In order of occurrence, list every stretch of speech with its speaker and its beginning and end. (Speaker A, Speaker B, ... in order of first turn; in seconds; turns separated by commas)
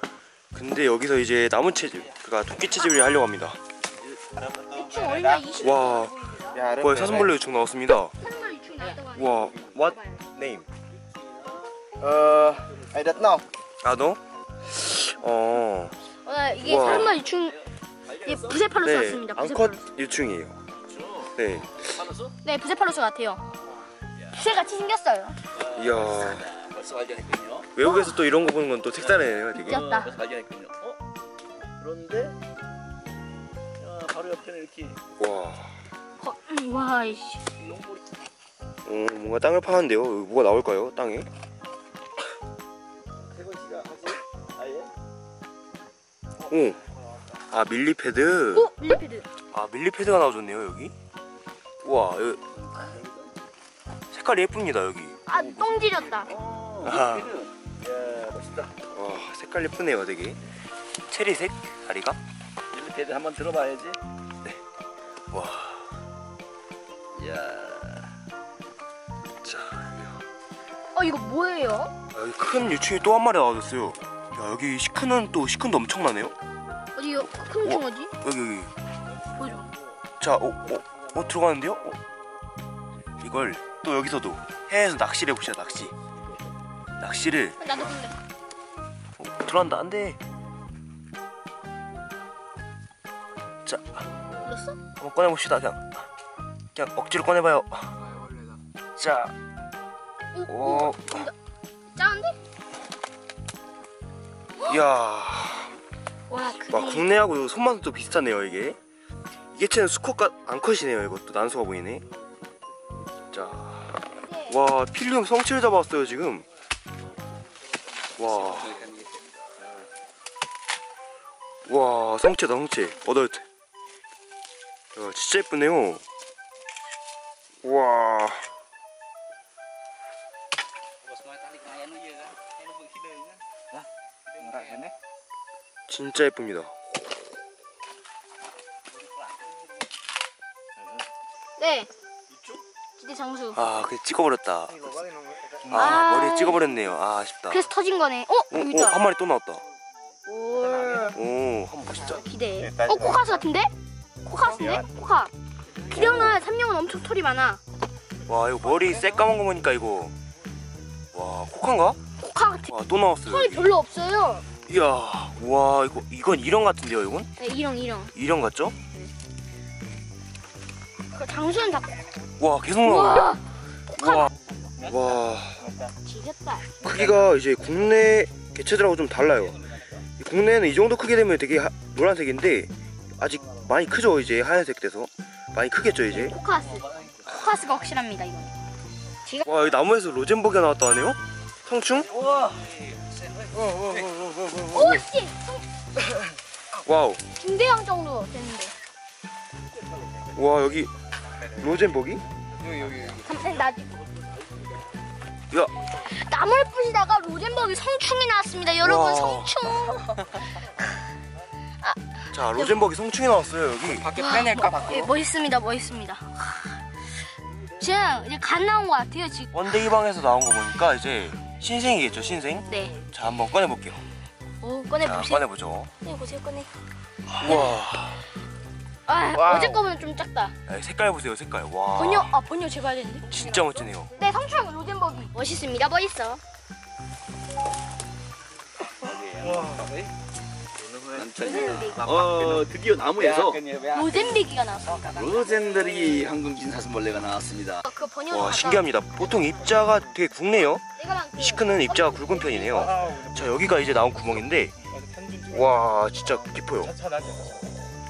Speaker A: 0.5-3.6, Speaker B: 4.7-6.8, Speaker A: 5.6-6.2, Speaker C: 6.6-7.3, Speaker A: 6.7-8.1, Speaker B: 8.2-10.2, Speaker A: 9.0-10.7, Speaker C: 12.0-13.4, Speaker D: 12.8-13.2, Speaker A: 13.8-15.9, Speaker B: 16.2-19.8, Speaker A: 16.6-17.2, Speaker D: 16.7-18.7, Speaker A: 18.8-20.6, Speaker D: 20.9-22.3, Speaker A: 21.3-21.8, Speaker B: 22.4-23.4, Speaker B: 24.3-25.4, Speaker D: 25.6-27.7, Speaker A: 25.7-26.5, Speaker A: 27.7-29.8, Speaker B: 27.8-28.2, Speaker D: 29.0-31.0, Speaker B: 29.5-30.1, Speaker D: 31.8-32.4, Speaker D: 33.8-35.0, Speaker A: 35.1-35.8, Speaker B: 36.2-37.4, Speaker D: 37.7-38.0, Speaker A: 38.8-41.3, Speaker D: 43.3-44.9, Speaker A: 46.5-46.8, Speaker A: 47.5-48.7, Speaker B: 48.5-49.3, Speaker A: 49.5-50.9, Speaker A: 51.8-52.4, Speaker D: 52.8-53.1, Speaker A: 54.1-55.2, Speaker B: 55.3-56.3, Speaker D: 55.4-58.7, Speaker A: 56.8-57.4, Speaker A: 58.9-60.4, Speaker A: 61.1-62.2, Speaker D: 62.7-64.0, Speaker A: 65.3-65.9, Speaker D: 67.2-68.1, Speaker A: 69.4-70.2, Speaker B: 70.9-71.9, Speaker A: 72.1-76.3, Speaker B: 76.9-78.1, Speaker A: 77.6-78.7, Speaker B: 79.3-79.7, Speaker A: 80.2-82.0, Speaker A: 83.2-85.9, Speaker A: 87.0-87.6, Speaker B: 87.6-88.2, Speaker A: 89.2-90.2, Speaker A: 93.6-94.1, Speaker B: 94.4-94.8, Speaker A: 95.0-96.0, Speaker A: 96.7-98.0, Speaker A: 99.0-99.3, Speaker B: 100.3-101.3, Speaker A: 100.5-101.3, Speaker B: 101.9-102.4, Speaker A: 104.6-105.7, Speaker B: 106.3-107.1, Speaker A: 106.7-108.8, Speaker A: 109.5-112.0, Speaker A: 113.3-116.5, Speaker B: 114.2-114.6, Speaker A: 118.2-118.8, Speaker D: 118.2-119.6, Speaker A: 121.7-123.5, Speaker A: 124.9-126.0, Speaker A: 127.6-128.5, Speaker D: 131.6-132.2, Speaker D: 134.5-134.8, Speaker A: 135.9-136.7, Speaker B: 141.6-141.9, Speaker B: 143.0-143.6, Speaker A: 143.5-145.0, Speaker C: 145.0-145.6, Speaker A: 145.7-147.7, Speaker B: 145.7-146.6, Speaker B: 147.5-149.0, Speaker A: 148.5-149.6, Speaker B: 150.2-151.2, Speaker A: 151.1-152.2, Speaker B: 152.0-153.7, Speaker B: 154.2-155.3, Speaker B: 155.8-157.6, Speaker A: 155.9-156.4, Speaker A: 158.2-160.1, Speaker A: 161.1-162.0, Speaker B: 162.2-162.7, Speaker A: 162.7-163.7, Speaker B: 163.2-164.4, Speaker A: 164.7-167.3, Speaker B: 167.4-168.1, Speaker A: 168.1-168.7, Speaker B: 168.8-169.1, Speaker B: 171.1-172.0, Speaker A: 172.4-173.4, Speaker B: 172.8-174.3, Speaker A: 173.9-174.3, Speaker A: 174.8-175.7, Speaker B: 176.0-176.7, Speaker A: 176.8-179.7, Speaker A: 180.2-186.3, Speaker B: 186.1-188.5, Speaker A: 189.4-192.2, Speaker C: 193.5-194.6, Speaker B: 194.7-195.6, Speaker A: 196.8-197.2, Speaker B: 197.3-198.7, Speaker A: 200.3-200.9, Speaker A: 201.4-202.2, Speaker C: 202.6-203.2, Speaker B: 203.0-203.9, Speaker B: 205.9-210.7, Speaker A: 208.8-209.6, Speaker B: 211.8-212.8, Speaker A: 212.3-214.1, Speaker C: 214.1-215.1, Speaker B: 214.1-216.8, Speaker B: 217.8-219.5, Speaker A: 219.5-224.0, Speaker B: 222.7-223.0, Speaker B: 224.6-225.4, Speaker A: 225.0-225.9, Speaker B: 226.0-226.7, Speaker A: 227.3-228.2, Speaker B: 227.4-227.8, Speaker B: 229.1-230.5, Speaker A: 229.3-229.8, Speaker A: 230.7-232.4, Speaker B: 231.9-233.3, Speaker A: 233.3-234.1, Speaker B: 234.1-236.4, Speaker D: 238.9-240.1, Speaker D: 241.1-243.8, Speaker B: 241.4-242.1, Speaker C: 243.2-243.8, Speaker B: 243.9-245.0, Speaker C: 244.9-245.2, Speaker D: 245.0-247.9, Speaker B: 247.8-249.0, Speaker A: 248.3-250.8, Speaker B: 251.0-253.0, Speaker A: 251.3-254.7, Speaker C: 254.9-255.6, Speaker A: 255.5-257.0, Speaker C: 256.9-257.5